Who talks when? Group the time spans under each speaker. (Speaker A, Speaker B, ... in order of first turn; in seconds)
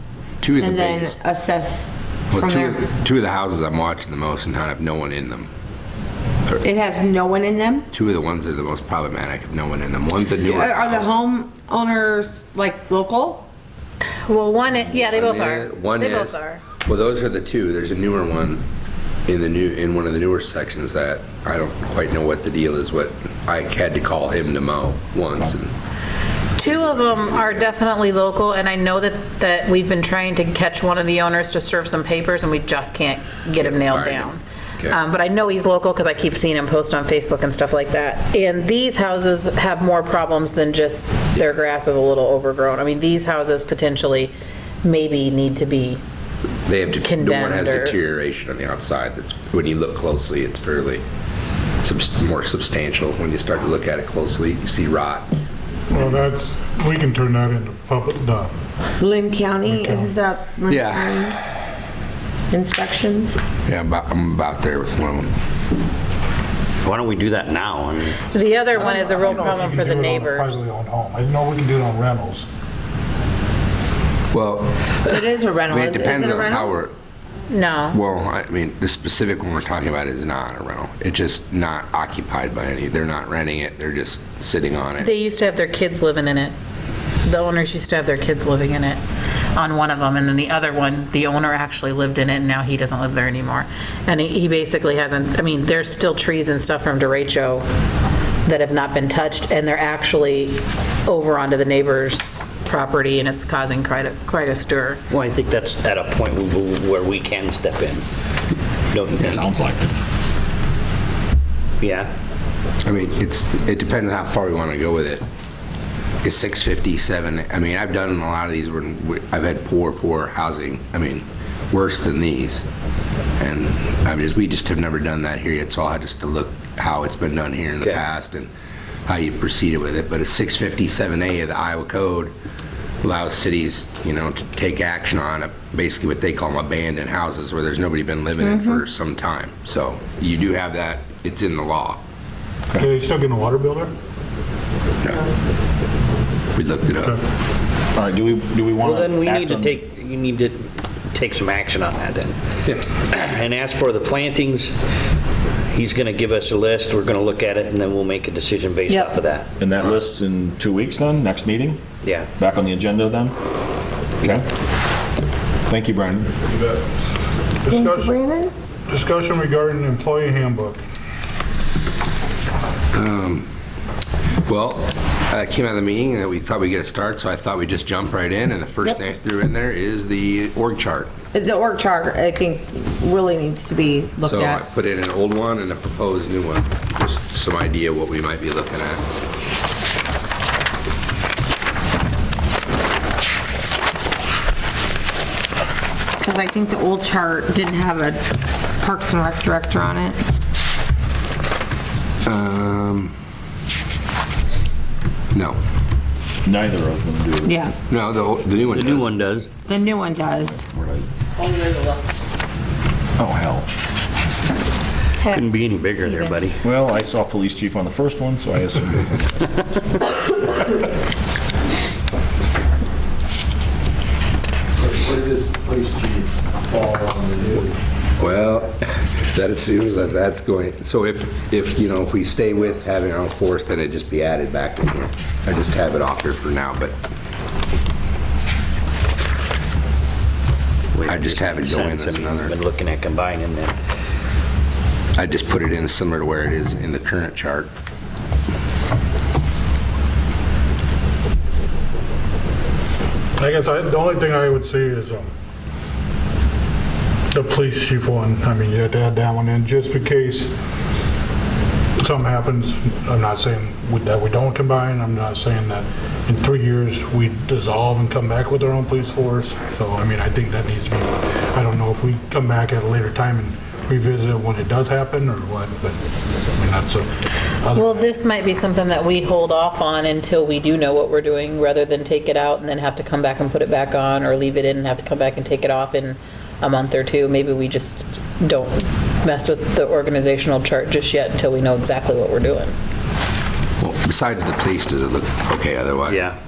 Speaker A: 0.4-1.1, 2.3-5.5, 7.9-11.2, 14.9-18.6, 19.2-25.7, 26.6-27.7, 33.5-35.0, 46.7-51.0, 51.8-55.3, 60.7-61.5, 63.6-65.3, 74.3-75.0, 75.7-76.9, 77.9-85.1, 112.8-115.2, 116.2-122.7, 123.4-128.5, 129.1-132.3, 133.0-142.0, 146.5-147.2, 172.9-173.5, 174.4-181.1, 184.2-189.0, 202.2-203.1, 205.3-205.6, 207.9-209.1, 228.2-237.0, 241.1-242.6, 245.2-247.7, 293.8-296.2
Speaker B: 0.6-2.8, 6.6-7.9, 10.4-13.5, 59.0-61.4, 62.5-63.4, 75.0-76.7, 138.4-138.8, 167.7-168.5, 181.3-184.6, 196.2-200.2, 207.4-207.7, 209.7-210.7, 211.4-212.0
Speaker C: 14.2-16.6, 26.6-46.0, 47.0-48.0, 68.3-70.6, 77.5-78.0, 85.0-86.5, 87.2-89.0, 89.5-97.7, 98.4-105.0, 277.7-292.7
Speaker D: 55.9-58.5, 59.6-60.1, 68.7-72.5, 142.7-143.9, 167.6-168.1, 168.9-170.8, 253.4-255.3, 257.3-260.5, 262.0-276.0, 276.6-277.1, 277.6-278.1
Speaker E: 66.8-68.3, 105.1-108.0, 108.9-109.5, 111.8-112.1, 148.8-152.3, 153.1-154.8, 155.7-159.5, 162.0-162.3, 208.7-209.5, 215.2-216.6, 240.9-243.7, 296.1-296.4
Speaker F: 109.2-109.9, 147.9-149.8, 159.6-161.8, 162.4-163.4, 164.2-164.5, 165.7-166.5, 206.4-207.6, 210.7-211.1, 213.2-213.7, 216.6-219.2
Speaker G: 224.8-227.7